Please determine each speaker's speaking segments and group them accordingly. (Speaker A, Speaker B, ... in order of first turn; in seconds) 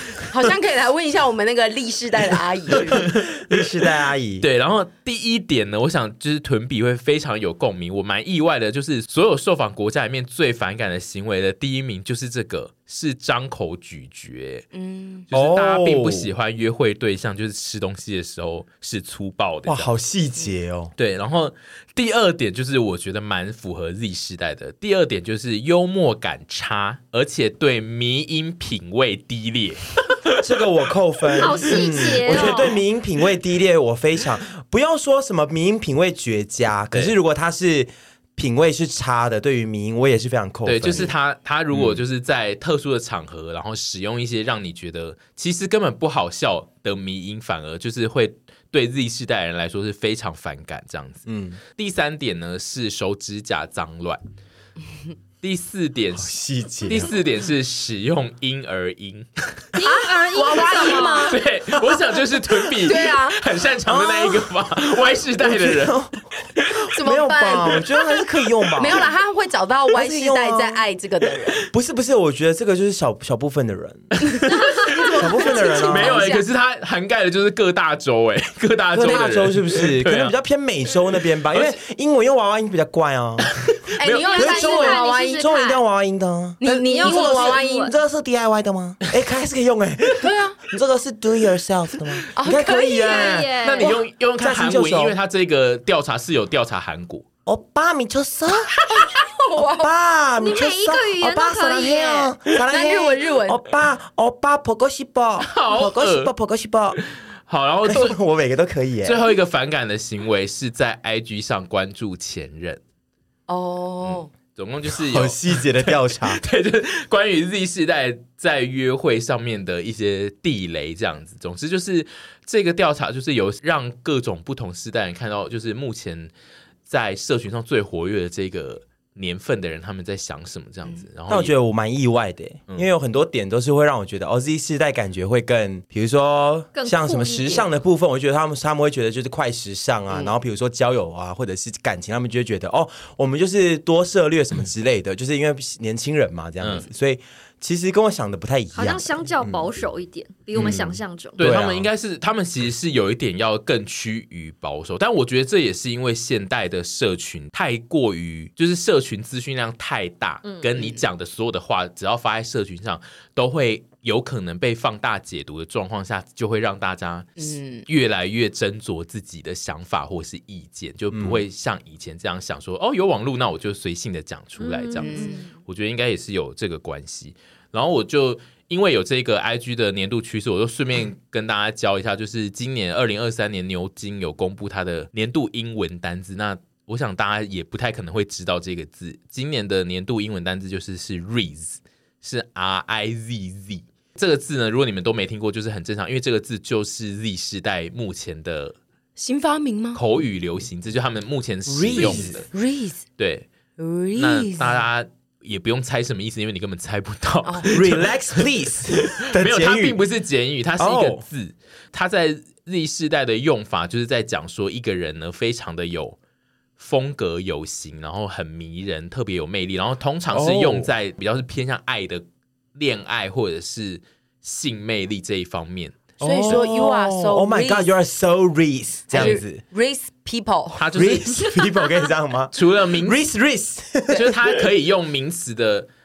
Speaker A: 0.2-3.1, 14.7-15.2, 59.8-61.4, 62.8-63.4, 66.9-67.8, 68.8-71.6, 74.3-76.4, 84.0-85.8, 86.6-87.9, 90.2-90.6, 92.3-93.5, 98.9-99.9, 102.7-103.6, 113.5-114.3, 160.8-161.0, 167.4-167.8, 175.0-175.5, 199.2-200.0, 201.9-203.0, 203.8-204.8, 207.4-207.7, 226.2-227.9, 229.1-230.9
Speaker B: 3.0-4.4, 15.3-16.3, 19.6-20.9, 30.4-41.1, 41.7-42.0, 51.2-51.6, 56.1-57.1, 63.9-64.3, 65.4-66.3, 67.0-69.0, 69.9-70.9, 71.6-76.3, 78.9-83.5, 84.4-95.2, 97.5-98.7, 99.8-107.0, 107.9-109.2, 114.9-116.4, 131.3-149.7, 150.5-151.9, 171.1-171.4, 201.7-202.4, 207.7-210.0, 210.8-211.2, 220.3-220.9, 226.2-229.6, 230.9-234.6
Speaker C: 4.4-14.7, 15.3-19.9, 21.0-30.4, 31.4-32.7, 40.6-51.2, 51.8-54.2, 55.4-56.3, 56.9-59.3, 61.2-66.0, 74.5-74.7, 75.5-80.3, 83.5-84.3, 93.6-97.2, 98.7-99.1, 105.4-106.3, 107.0-108.2, 109.0-112.8, 114.1-126.3, 126.9-131.5, 146.6-146.9, 151.4-198.7, 199.9-202.4, 203.2-203.5, 204.1-208.5, 209.1-216.2, 216.8-222.2, 222.7-226.0, 230.8-231.6, 232.5-233.2, 234.1-235.9
Speaker D: 31.4-32.7, 59.7-61.4, 84.1-85.7, 86.6-87.9, 92.6-93.9, 100.4-102.3, 136.7-137.7, 148.7-151.4, 174.6-175.5